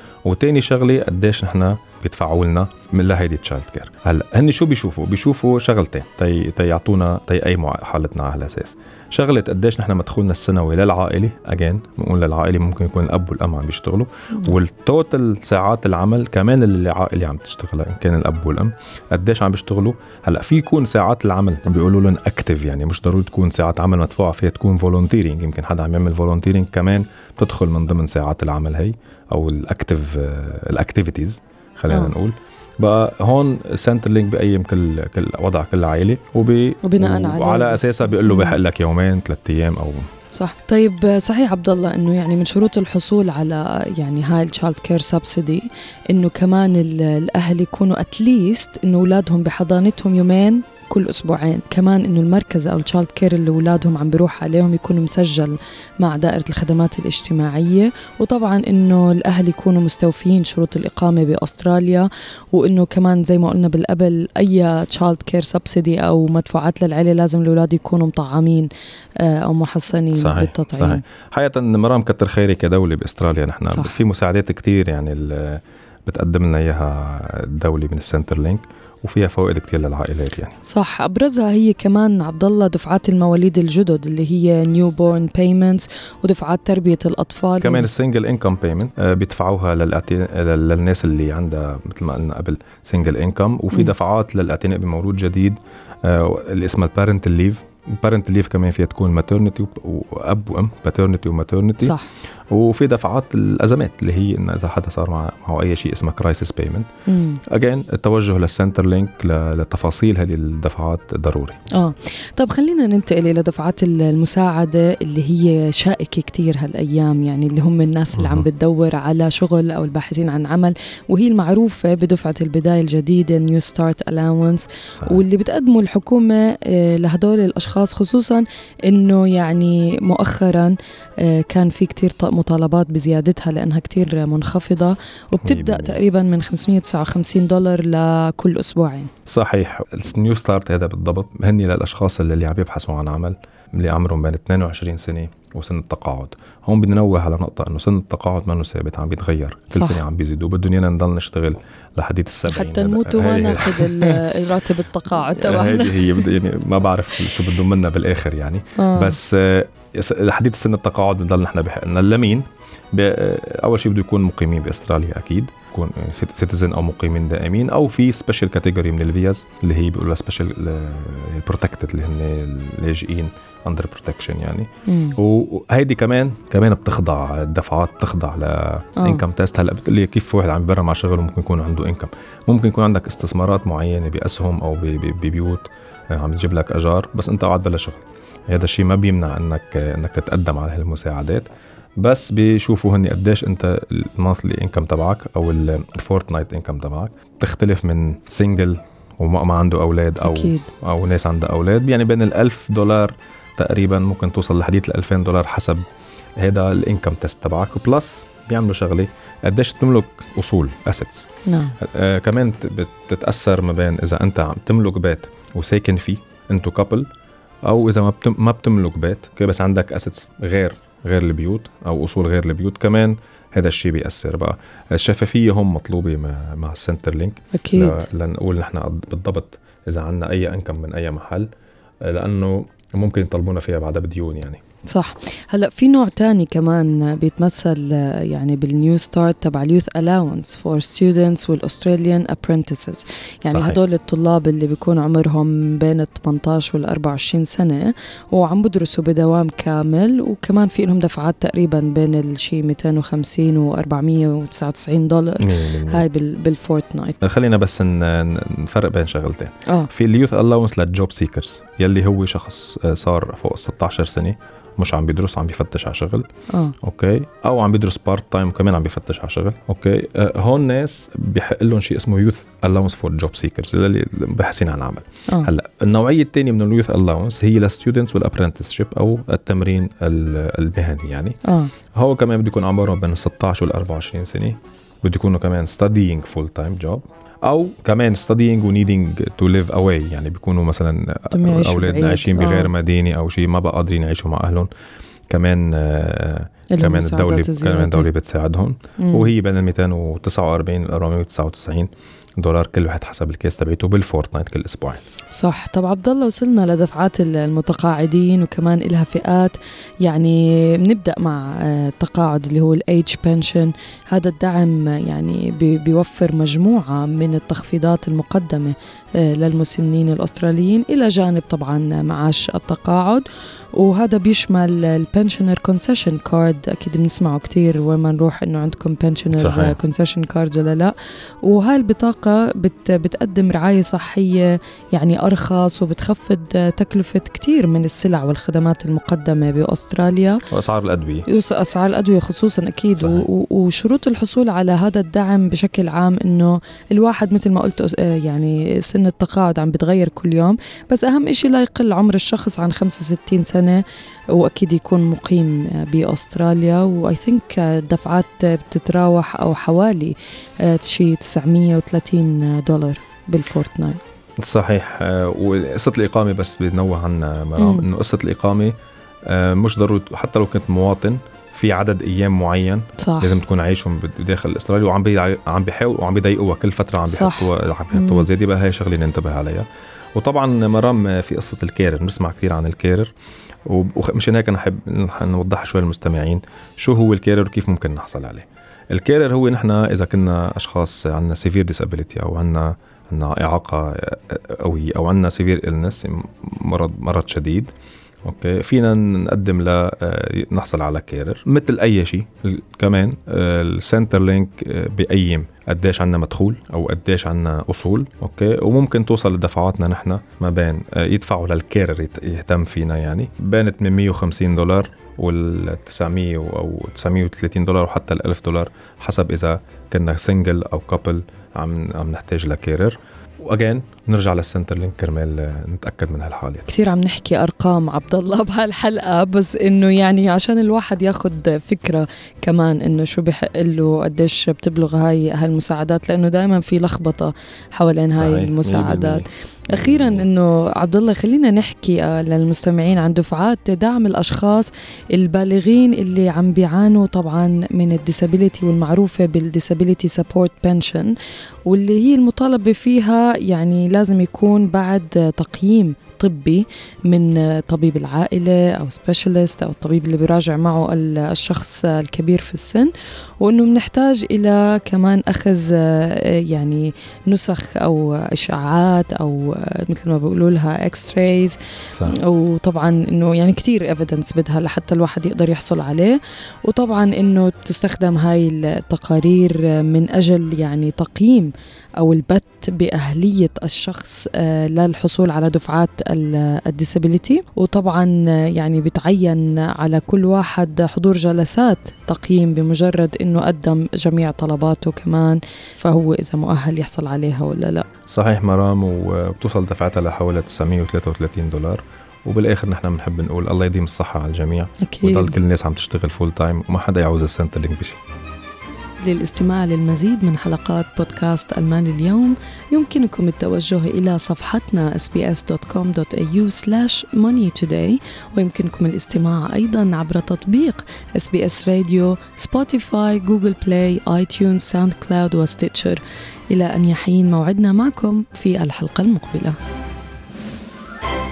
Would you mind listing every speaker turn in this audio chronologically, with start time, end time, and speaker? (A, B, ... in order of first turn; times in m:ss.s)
0:00.2-0:40.1 A
0:31.9-0:32.1 B
0:36.8-0:38.6 B
0:40.3-1:08.7 B
1:09.2-1:11.0 B
1:10.1-1:20.6 A
1:20.6-1:27.9 B
1:27.6-1:42.0 A
1:41.8-1:42.1 B
1:42.5-1:46.9 A
1:47.1-1:47.4 B
1:47.5-1:51.6 A
1:51.7-2:19.1 B
1:58.1-1:58.4 A
2:15.4-2:16.0 A
2:19.3-2:34.2 A
2:29.7-2:30.0 B
2:32.4-2:36.2 B
2:35.3-3:11.5 A
2:38.8-2:39.2 B
2:54.9-2:55.2 B
2:59.0-2:59.2 B
3:12.0-3:25.8 A
3:20.2-3:20.7 B
3:26.4-3:31.3 A
3:31.5-3:31.8 B
3:31.8-3:37.1 A
3:37.6-3:51.5 A
3:47.5-3:48.0 B
3:52.0-3:54.6 A
3:54.9-4:17.2 B
4:03.5-4:03.8 A
4:15.4-4:16.0 A
4:17.2-4:26.3 A
4:26.5-4:26.8 B
4:26.8-4:41.4 A
4:41.4-4:41.7 B
4:41.9-4:54.7 A
4:51.3-4:52.7 B
4:55.3-5:05.0 A
4:56.7-4:58.1 B
4:59.0-4:59.3 B
5:05.3-5:23.2 B
5:23.8-5:30.9 B
5:29.3-5:29.8 A
5:31.4-5:40.4 B
5:40.5-5:41.2 A
5:41.3-5:53.8 B
5:54.3-6:04.0 B
6:04.4-6:08.8 A
6:07.6-6:07.9 B
6:09.3-6:23.1 A
6:13.0-6:13.4 B
6:17.1-6:18.3 B
6:23.6-6:37.7 A
6:38.2-7:06.7 A
7:06.7-7:31.1 B
7:18.1-7:20.2 A
7:31.7-7:42.9 B
7:43.4-8:17.9 B
7:51.9-7:52.2 A
8:18.1-8:28.0 A
8:24.8-8:25.4 B
8:29.0-8:49.6 B